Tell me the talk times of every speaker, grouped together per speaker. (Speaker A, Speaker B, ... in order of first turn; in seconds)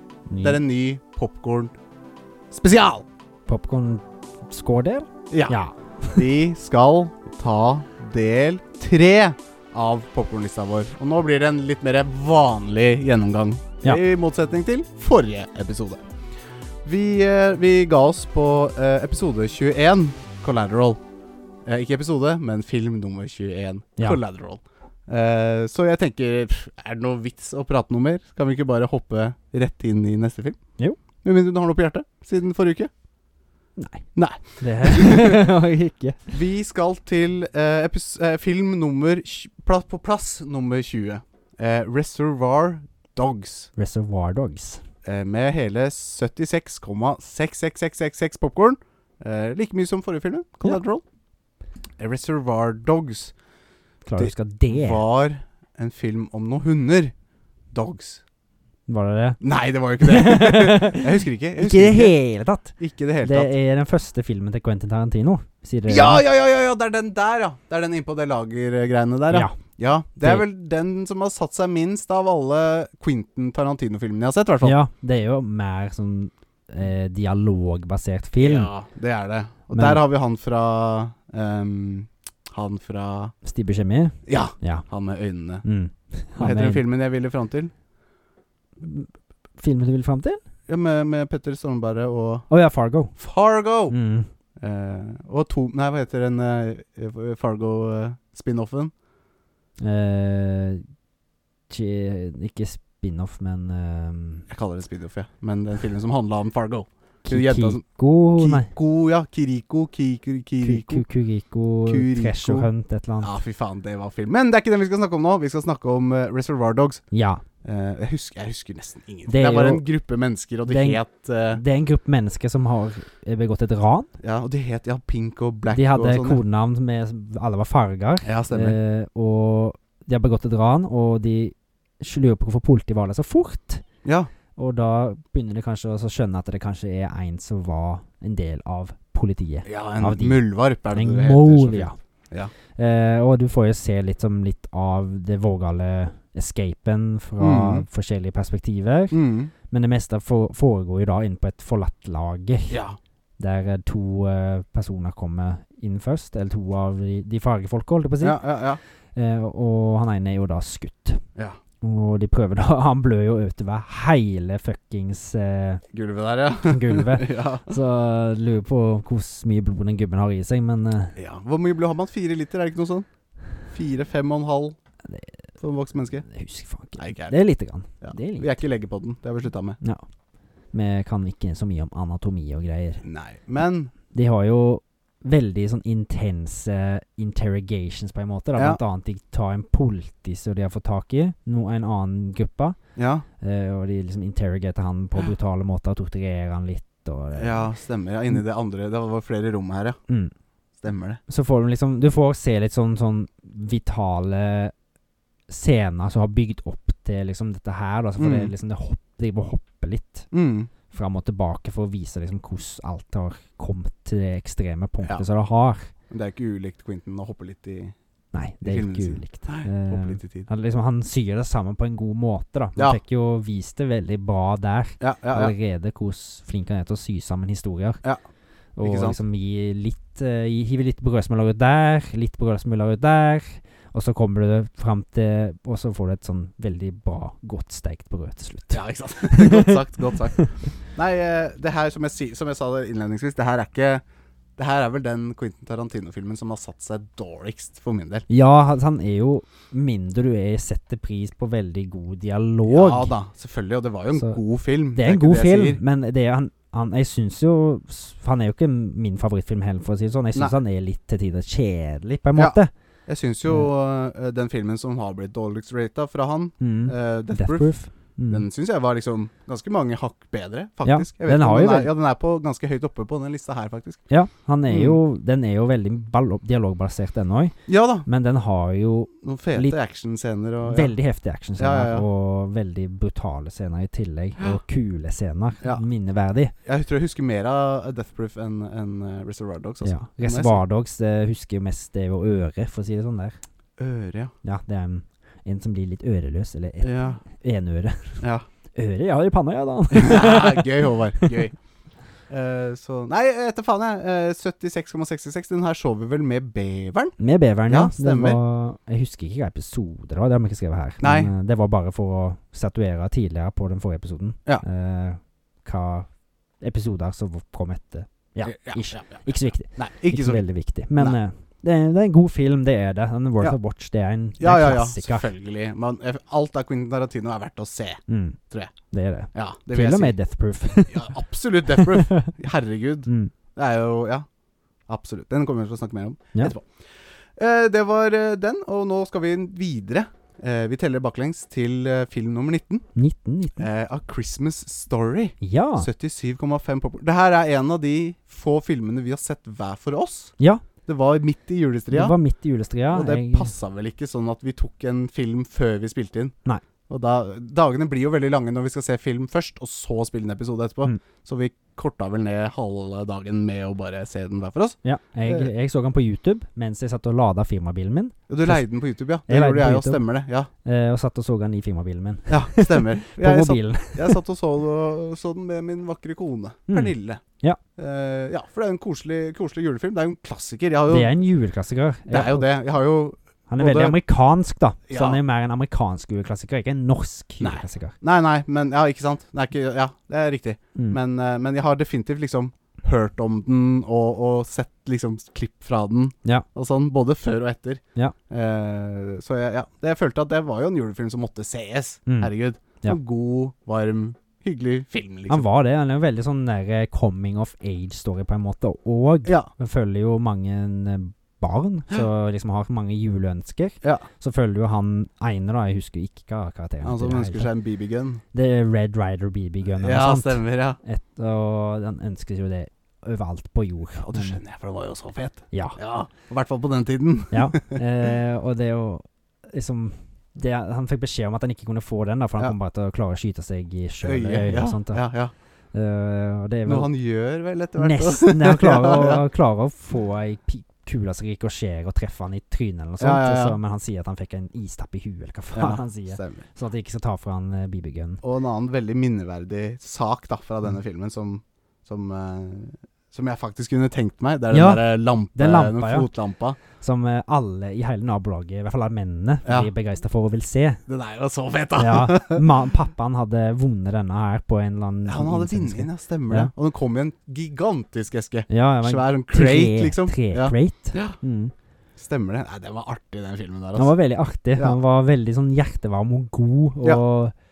Speaker A: 0.3-0.6, 3.5-6.2, 33.8-36.3, 43.8-44.8, 54.0-55.0, 58.9-59.4, 60.0-66.2, 69.3-69.6, 70.2-70.4, 74.6-78.7, 79.7-80.0, 83.4-84.8, 85.6-86.8, 88.8-90.4, 92.5-93.1, 93.9-94.3, 99.8-100.8, 101.7-104.5, 107.2-108.7, 110.6-113.3, 117.1-117.4, 119.3-119.8, 120.7-121.0, 121.5-124.1, 125.7-133.8, 134.5-141.9, 142.8-152.8, 153.4-158.5, 159.1-161.2, 161.8-165.8, 166.6-171.2, 175.0-175.3, 176.2-178.6, 180.7-183.0, 184.1-192.8, 193.4-197.7, 201.3-204.7, 205.5-210.3, 210.9-215.9, 218.3-228.0, 228.8-239.8, 248.3-253.1, 254.1-254.4, 254.9-262.7, 266.6-268.4, 270.8-271.9, 274.1-279.8, 280.6-286.5, 289.8-293.4, 294.4-298.2, 298.7-301.3, 307.2-316.1, 316.6-325.3, 328.1-328.4, 328.9-331.1, 331.8-332.3, 333.1-333.3, 342.9-343.7, 345.4-345.9, 350.4-350.6, 351.9-353.5, 364.8-368.6, 369.3-370.0, 370.6-374.2, 376.7-377.6, 380.9-382.5, 383.5-387.9, 405.3-417.5, 418.3-424.4, 425.5-425.8, 427.3-435.0, 435.7-436.9, 437.8-448.2, 454.5-456.1, 456.7-460.8, 461.8-466.5, 468.5-471.5, 473.8-477.3
Speaker B: 0.4-1.7, 2.5-3.0, 5.3-5.6, 6.1-16.0, 16.8-21.0, 21.6-30.6, 31.2-32.9, 34.1-35.5, 36.3-43.7, 45.0-51.0, 52.0-53.3, 54.2-57.1, 57.7-58.2, 59.4-62.1, 62.8-63.5, 65.9-74.8, 78.4-83.3, 84.3-85.7, 86.4-87.7, 90.7-92.5, 93.2-93.9, 94.6-98.9, 104.5-107.8, 108.3-111.0, 111.8-112.7, 113.2-117.0, 117.6-121.6, 124.2-126.4, 128.2-128.8, 134.0-134.3, 139.7-142.5, 147.4-147.8, 149.1-149.5, 152.7-153.0, 158.2-158.8, 165.9-167.7, 171.2-173.1, 173.7-174.8, 175.6-176.2, 177.0-177.3, 178.0-179.8, 183.0-183.9, 192.9-193.2, 197.3-200.0, 200.8-201.2, 208.2-208.5, 210.3-210.7, 216.1-217.9, 218.6-220.5, 225.0-225.5, 228.8-229.2, 238.7-244.0, 244.6-248.2, 252.7-255.8, 262.4-267.8, 268.3-274.0, 274.7-275.0, 277.7-278.1, 279.2-280.9, 281.6-282.1, 286.6-290.6, 293.8-294.3, 296.8-297.2, 299.9-301.5, 302.3-307.1, 307.7-308.4, 311.0-311.3, 318.4-320.4, 324.4-328.7, 329.3-330.1, 330.8-334.2, 334.9-342.8, 343.6-350.3, 350.9-352.1, 352.9-356.3, 356.9-365.5, 368.3-370.5, 372.3-377.2, 377.8-381.1, 382.1-384.0, 384.9-385.2, 387.4-405.4, 413.8-414.1, 416.8-418.2, 419.8-420.8, 423.9-427.8, 434.0-435.3, 436.6-439.2, 443.0-443.6, 445.5-446.4, 448.2-456.6, 459.4-459.7, 460.9-462.4, 465.1-471.2, 472.0-473.9